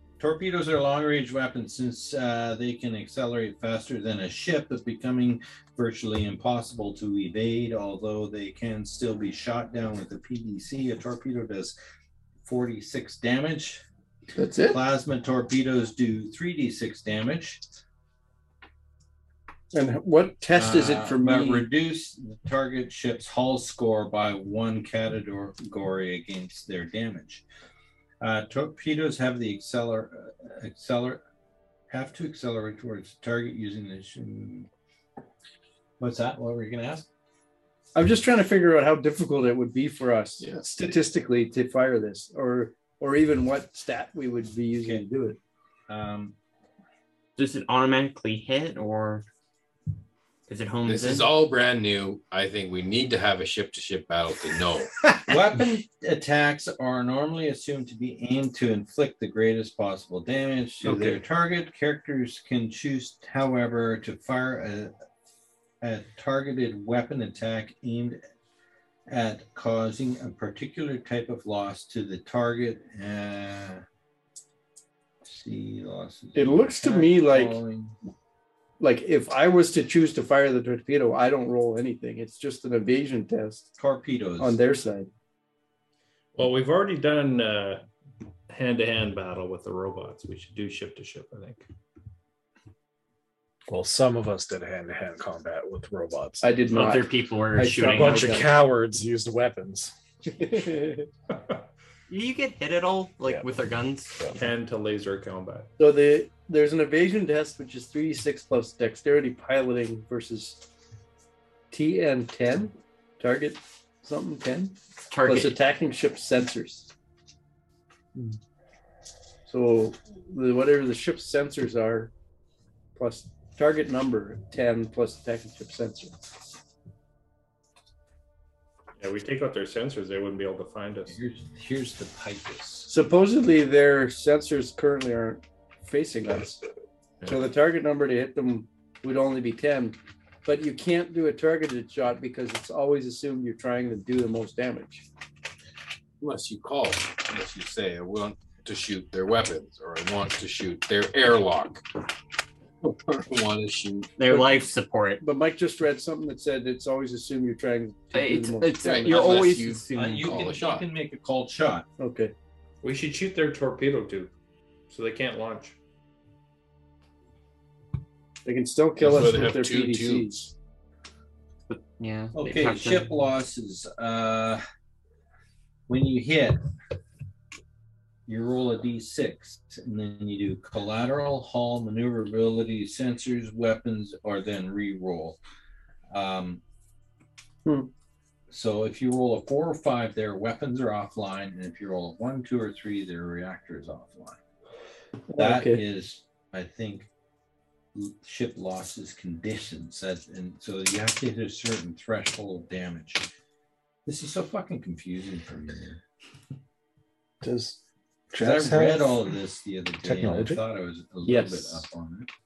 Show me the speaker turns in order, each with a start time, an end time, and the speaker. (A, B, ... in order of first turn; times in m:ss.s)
0:00.2-0:11.8 A
0:12.4-0:13.8 A
0:14.4-0:14.8 B
0:14.7-0:17.6 A
0:19.7-0:21.7 B
0:20.5-0:27.4 A
0:28.2-0:31.2 A
0:31.9-0:34.7 A
0:36.0-0:37.1 A
0:38.0-0:45.4 B
0:45.9-0:46.4 A
0:47.4-0:49.2 C
0:50.5-0:51.3 C
0:50.8-0:54.9 D
0:55.2-1:04.9 A
1:00.8-1:01.2 B
1:05.8-1:08.2 A
1:09.1-1:13.8 A
1:15.2-1:18.0 A
1:16.4-1:17.6 B
1:18.8-1:23.7 B
1:23.8-1:24.6 A
1:24.4-1:25.1 B
1:26.4-1:27.8 E
1:28.5-1:31.6 E
1:33.7-1:36.5 F
1:36.4-1:38.5 B
1:36.7-1:38.5 C
1:37.8-1:39.9 F
1:40.4-1:41.1 B
1:42.1-1:44.3 C
1:43.2-1:44.4 F
1:44.3-1:45.7 E
1:45.8-1:50.6 B
1:51.7-1:56.9 B
1:55.1-1:55.6 C
1:59.5-2:02.1 B
2:03.0-2:06.2 B
2:09.0-2:11.2 E
2:11.1-2:12.9 A
2:12.9-2:16.6 B
2:17.2-2:25.0 B
2:26.2-2:31.8 D
2:32.8-2:34.2 D
2:34.2-2:35.2 C
2:34.3-2:34.6 B
2:35.2-2:39.4 B
2:38.1-2:40.4 C
2:38.8-2:40.9 D
2:39.9-2:41.9 A
2:42.0-2:42.3 B
2:42.8-2:44.3 E
2:44.9-2:45.8 E
2:48.4-2:50.4 B
2:49.0-2:50.5 D
2:51.7-2:53.1 C
2:52.4-2:54.6 A
2:55.9-2:56.6 A
2:58.3-3:05.4 A
3:06.1-3:06.6 A
3:07.6-3:07.9 B
3:08.5-3:14.4 A
3:15.3-3:15.8 B
3:15.4-3:17.1 A
3:17.9-3:23.3 A
3:24.0-3:26.0 A
3:27.4-3:27.8 F
3:28.3-3:29.3 F
3:28.4-3:32.3 A
3:30.0-3:30.6 F
3:31.2-3:31.8 B